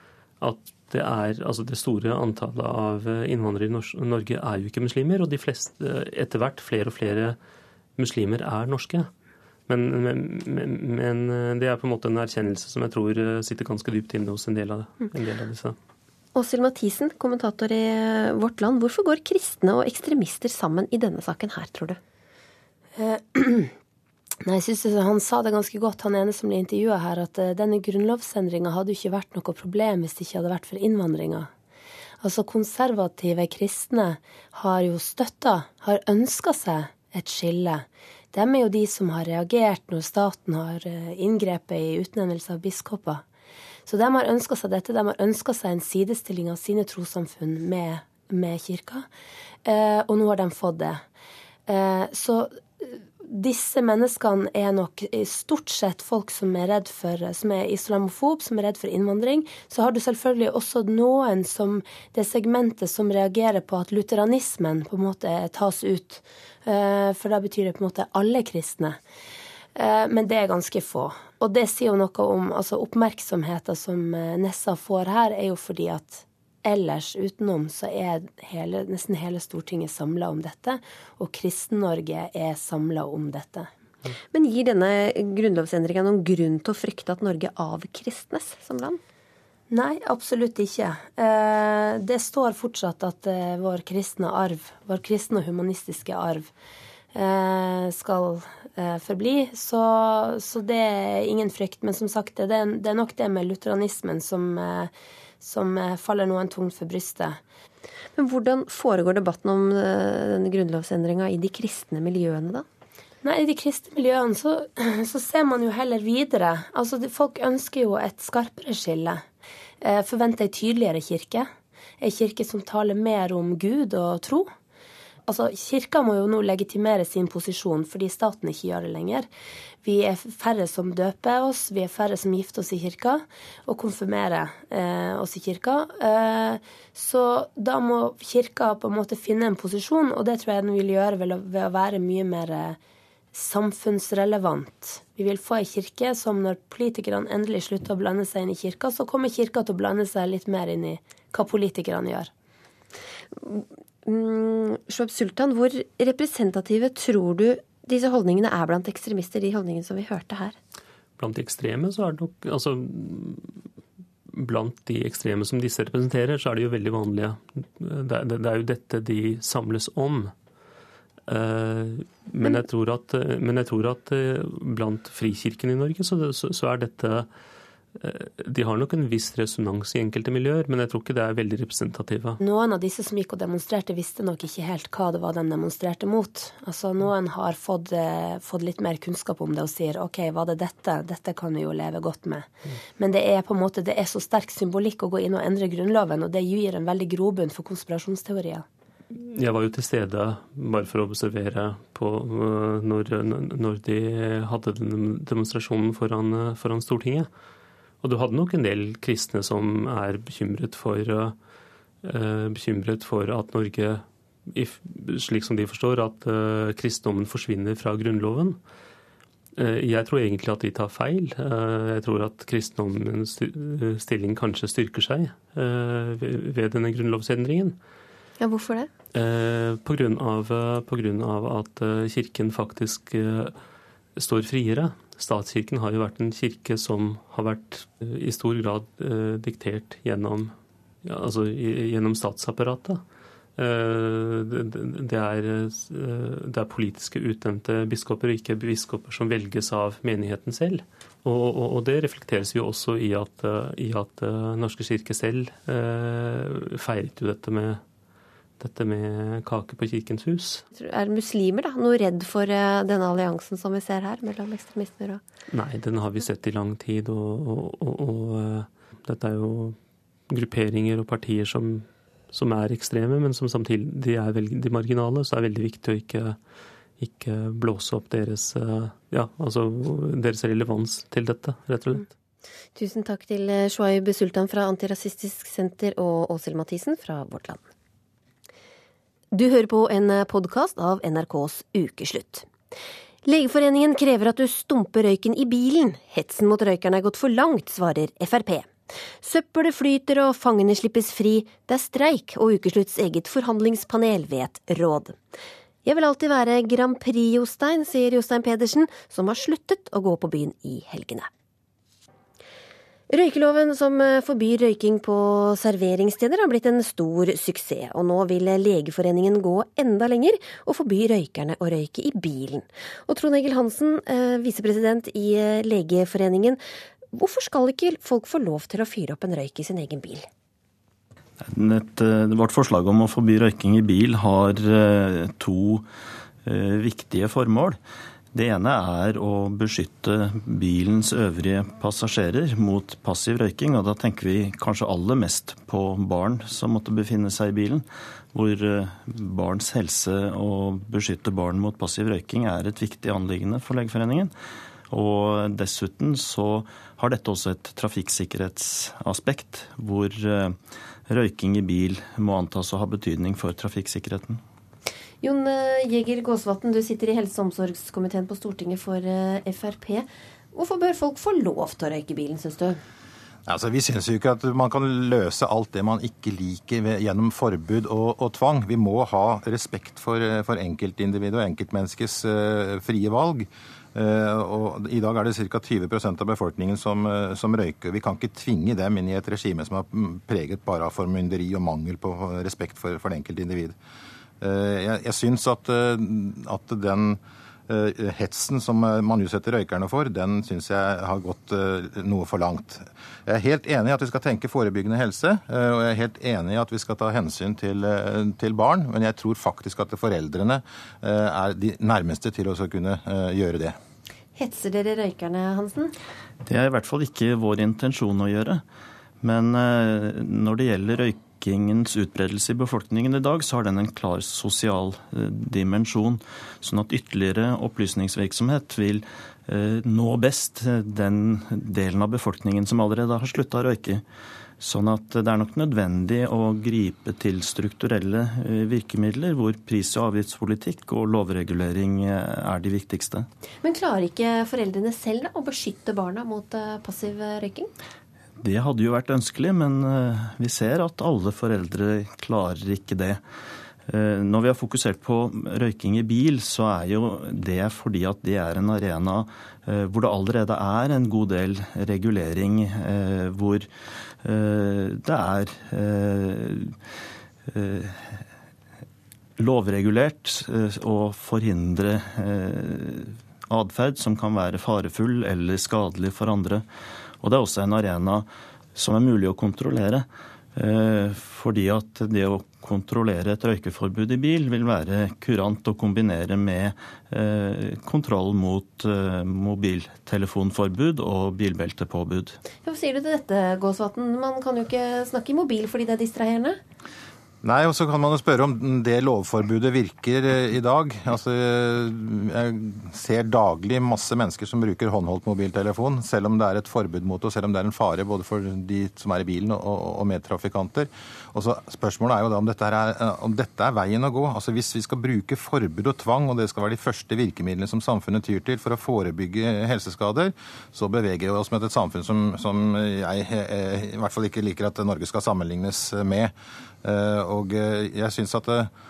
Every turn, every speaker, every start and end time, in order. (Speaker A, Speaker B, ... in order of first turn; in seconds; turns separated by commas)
Speaker A: 0.4-7.4, Speaker A: 8.0-9.1, Speaker A: 9.7-15.8, Speaker B: 16.3-22.0, Speaker C: 22.9-23.7, Speaker C: 24.4-31.5, Speaker C: 32.2-43.2, Speaker C: 43.9-49.1, Speaker C: 49.6-51.0, Speaker C: 51.7-69.0, Speaker C: 69.8-83.7, Speaker B: 84.3-89.0, Speaker C: 89.7-96.5, Speaker C: 97.1-107.4, Speaker B: 108.2-112.6, Speaker C: 113.2-119.2, Speaker C: 119.8-124.5, Speaker C: 125.2-129.3, Speaker C: 129.8-142.8, Speaker C: 143.3-152.3, Speaker B: 153.3-160.6, Speaker A: 161.2-163.6, Speaker A: 164.3-170.3, Speaker A: 171.3-177.3, Speaker A: 177.9-182.4, Speaker C: 182.4-198.6, Speaker A: 199.1-207.3, Speaker A: 208.0-211.3, Speaker A: 212.0-218.6, Speaker A: 219.6-227.8, Speaker B: 228.4-228.9, Speaker A: 229.1-233.6, Speaker A: 234.2-243.0, Speaker A: 243.6-257.8, Speaker A: 258.6-260.6, Speaker B: 260.7-265.2, Speaker A: 265.5-269.8, Speaker A: 270.3-276.4, Speaker A: 277.0-282.1, Speaker B: 282.8-287.7, Speaker B: 289.3-292.5, Speaker B: 293.2-305.2, Speaker B: 305.8-311.3, Speaker B: 313.1-326.6, Speaker B: 327.1-330.3, Speaker D: 331.4-335.9, Speaker D: 336.4-337.8, Speaker D: 338.3-354.3, Speaker D: 354.9-364.4, Speaker B: 365.2-372.8, Speaker E: 373.4-393.8, Speaker E: 394.4-413.8, Speaker B: 414.4-415.9, Speaker D: 416.4-418.6, Speaker D: 419.2-434.0, Speaker D: 434.6-443.3, Speaker B: 443.6-447.7, Speaker D: 448.4-453.2, Speaker D: 453.9-463.7, Speaker D: 464.2-466.8, Speaker D: 467.5-468.2, Speaker D: 469.4-476.6, Speaker D: 477.2-492.4, Speaker B: 492.6-496.6, Speaker E: 497.4-526.3, Speaker E: 526.8-528.7